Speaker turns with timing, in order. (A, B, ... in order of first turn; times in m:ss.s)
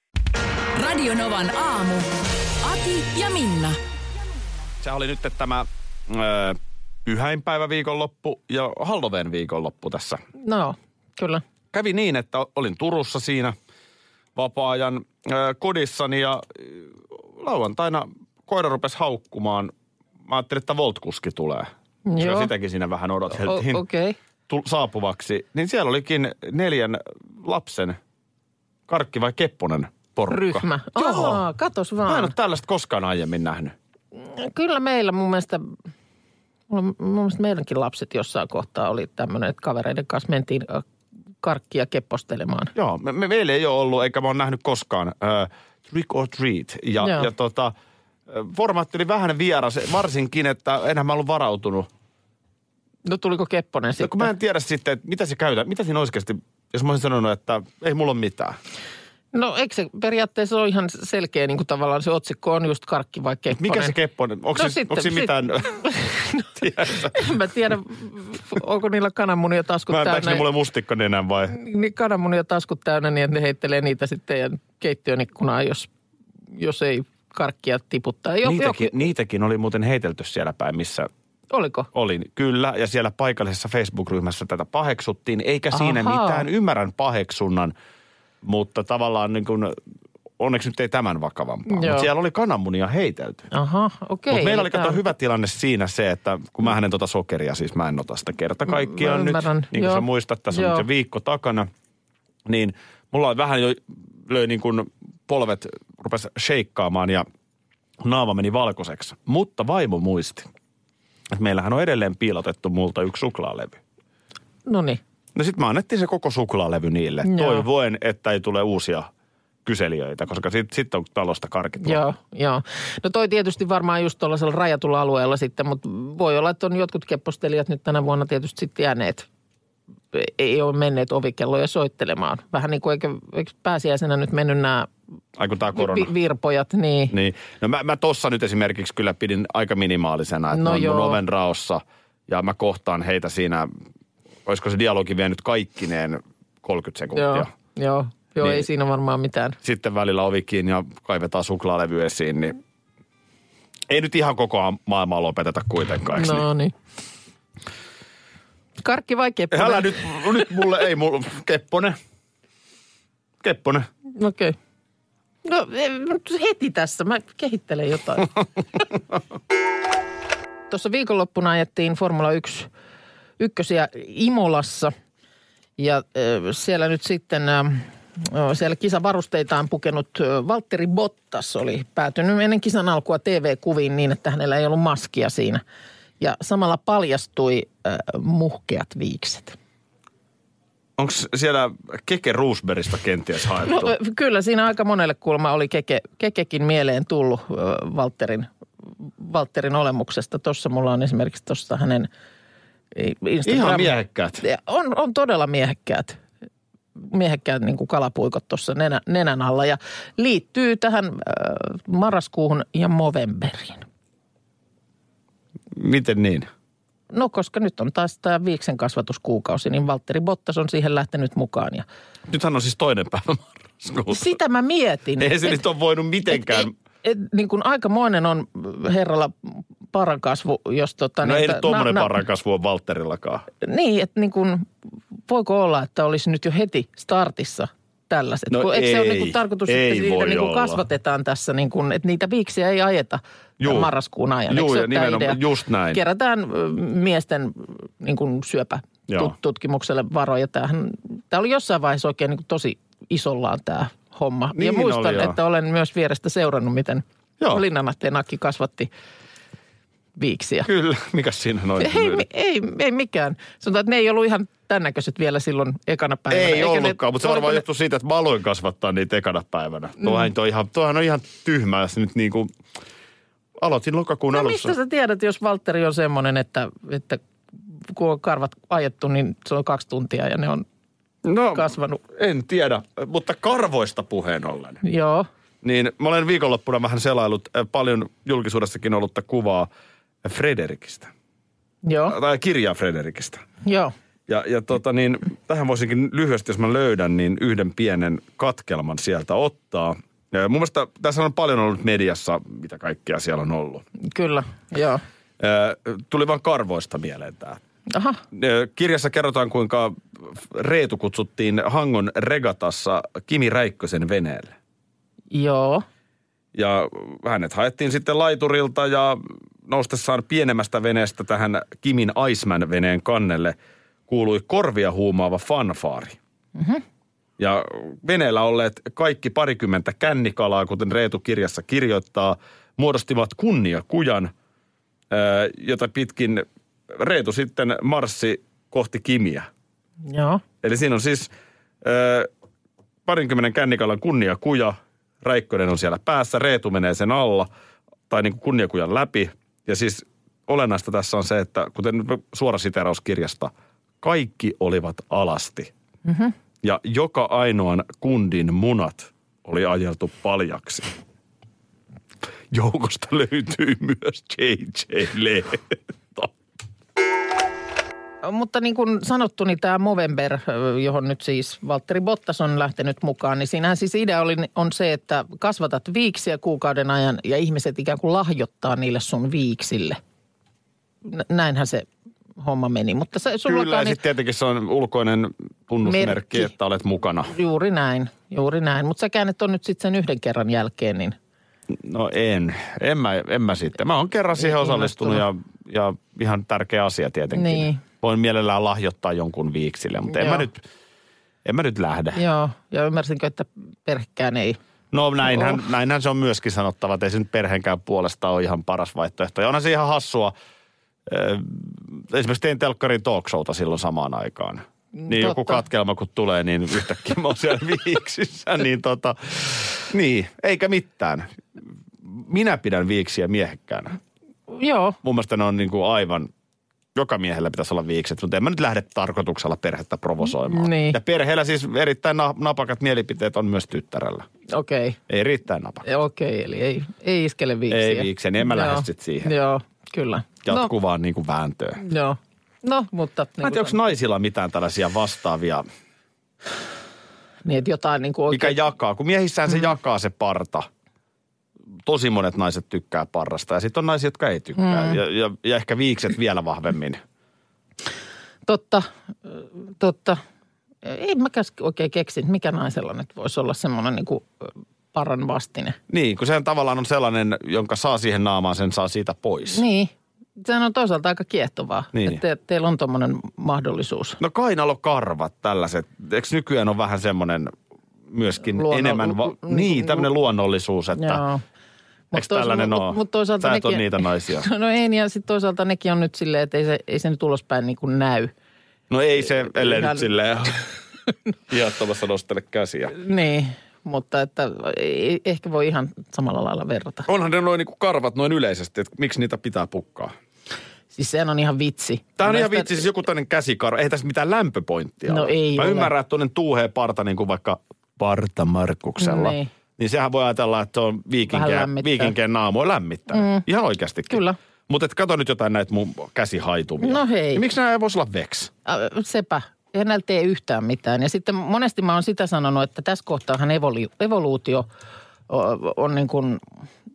0:00.7-0:03.8 A
0:04.8-0:10.2 B
0:10.4-0:11.4 C
0:11.7-0:13.6 B
0:14.4-0:19.7 B
0:20.3-0:23.8 B
0:22.1-0:22.5 C
0:23.3-0:24.2 C
0:24.5-0:28.0 B
0:28.9-0:31.4 B
0:30.3-0:32.4 C
0:32.0-0:33.8 B
0:34.2-0:35.7 C
0:36.7-0:40.9 C
0:41.4-0:42.7 C
0:42.8-0:47.7 B
0:47.0-0:47.3 C
0:48.3-0:51.9 B
0:53.1-0:54.3 C
0:54.0-0:58.6 B
0:59.3-1:04.0 C
1:03.6-1:07.2 B
1:04.6-1:10.5 C
1:09.9-1:11.6 B
1:11.5-1:15.9 C
1:16.6-1:19.0 C
1:18.4-1:21.1 B
1:21.5-1:21.9 C
1:21.9-1:27.7 B
1:25.7-1:26.4 C
1:28.4-1:29.8 B
1:30.4-1:33.5 B
1:31.7-1:32.1 C
1:33.5-1:35.0 C
1:34.3-1:41.7 B
1:38.7-1:40.8 C
1:42.5-1:47.3 B
1:48.0-1:50.5 B
1:51.3-1:53.8 B
1:54.7-1:55.0 C
1:55.4-1:59.1 B
1:57.2-1:57.7 C
1:59.6-2:02.0 B
2:01.8-2:09.3 C
2:10.1-2:14.9 C
2:15.4-2:16.1 B
2:15.7-2:17.1 C
2:17.1-2:23.7 B
2:20.5-2:21.2 C
2:24.5-2:27.5 B
2:27.2-2:29.6 C
2:28.4-2:28.7 B
2:29.6-2:32.6 B
2:33.9-2:36.5 B
2:36.2-2:36.7 C
2:38.8-2:40.5 C
2:39.5-2:42.0 B
2:43.4-2:43.9 B
2:44.2-2:44.6 C
2:45.4-2:48.8 C
2:50.7-2:52.7 C
2:53.4-2:54.9 C
2:55.8-3:05.6 C
3:06.2-3:09.6 C
3:11.0-3:14.0 B
3:13.6-3:18.5 C
3:19.0-3:22.1 C
3:23.0-3:26.2 C
3:23.4-3:24.4 B
3:27.0-3:33.9 C
3:35.7-3:36.5 B
3:37.1-3:41.9 C
3:42.3-3:44.4 B
3:44.1-3:45.6 C
3:45.2-3:46.7 B
3:46.3-3:52.2 C
3:51.2-3:53.5 B
3:53.6-3:54.7 C
3:55.3-4:05.4 C
3:58.5-4:00.8 B
4:03.6-4:03.9 B
4:04.5-4:06.0 B
4:05.9-4:18.9 C
4:09.1-4:09.3 B
4:14.5-4:15.4 B
4:20.2-4:20.7 C
4:20.6-4:22.2 B
4:21.8-4:27.6 C
4:26.3-4:32.5 B
4:33.6-4:34.8 B
4:34.3-4:37.2 C
4:37.9-4:40.6 C
4:41.2-4:44.8 B
4:41.5-4:42.0 C
4:44.8-4:45.3 C
4:45.6-4:49.7 B
4:50.2-4:51.1 B
4:51.8-4:52.2 C
4:52.1-4:53.4 B
4:53.6-4:53.9 C
4:54.3-5:03.8 B
5:04.0-5:05.0 C
5:05.4-5:07.6 B
5:07.9-5:08.2 C
5:08.3-5:14.5 B
5:15.3-5:15.8 C
5:16.5-5:23.6 B
5:24.1-5:26.2 B
5:26.6-5:26.8 C
5:27.4-5:34.3 B
5:35.1-5:39.5 B
5:40.1-5:40.4 C
5:40.6-5:41.3 B
5:41.8-5:42.3 B
5:43.1-5:47.5 B
5:48.1-5:55.7 B
5:56.1-5:56.3 C
5:56.6-6:00.9 B
6:02.5-6:06.3 B
6:08.2-6:20.0 C
6:21.0-6:21.9 C
6:22.4-6:24.0 C
6:23.4-6:27.3 B
6:25.8-6:26.5 C
6:27.3-6:31.2 C
6:31.7-6:40.6 B
6:34.4-6:35.2 C
6:37.3-6:37.8 C
6:40.1-6:40.5 C
6:41.4-6:42.2 B
6:42.2-6:44.6 C
6:44.9-6:50.3 B
6:45.2-6:45.6 C
6:51.1-7:01.3 B
6:55.0-6:55.6 C
7:02.0-7:04.0 B
7:04.5-7:05.0 C
7:05.0-7:06.3 B
7:07.0-7:14.3 B
7:10.2-7:11.0 C
7:14.5-7:15.0 C
7:15.1-7:15.8 B
7:15.8-7:20.7 C
7:17.7-7:19.3 B
7:20.4-7:21.8 B
7:21.8-7:23.8 C
7:23.4-7:25.7 B
7:27.5-7:28.6 C
7:28.3-7:30.7 B
7:31.8-7:37.0 B
7:34.6-7:35.0 C
7:38.5-7:40.2 C
7:40.8-7:45.8 C
7:45.9-7:49.6 B
7:49.5-7:54.2 C
7:51.9-7:52.2 B
7:54.2-7:57.5 B
7:58.1-8:01.2 B
7:58.5-8:00.1 C
8:01.0-8:01.4 C
8:02.1-8:08.3 C
8:02.1-8:04.5 B
8:08.9-8:10.6 B
8:09.4-8:10.1 C
8:11.5-8:13.0 B
8:12.9-8:17.1 C
8:17.1-8:20.1 B
8:20.9-8:22.9 C
8:22.2-8:38.5 B
8:25.1-8:25.9 C
8:29.0-8:29.5 C
8:31.3-8:32.2 C
8:33.1-8:33.4 C
8:34.1-8:34.4 C
8:36.8-8:37.4 C
8:38.6-8:44.7 C
8:45.3-8:46.4 C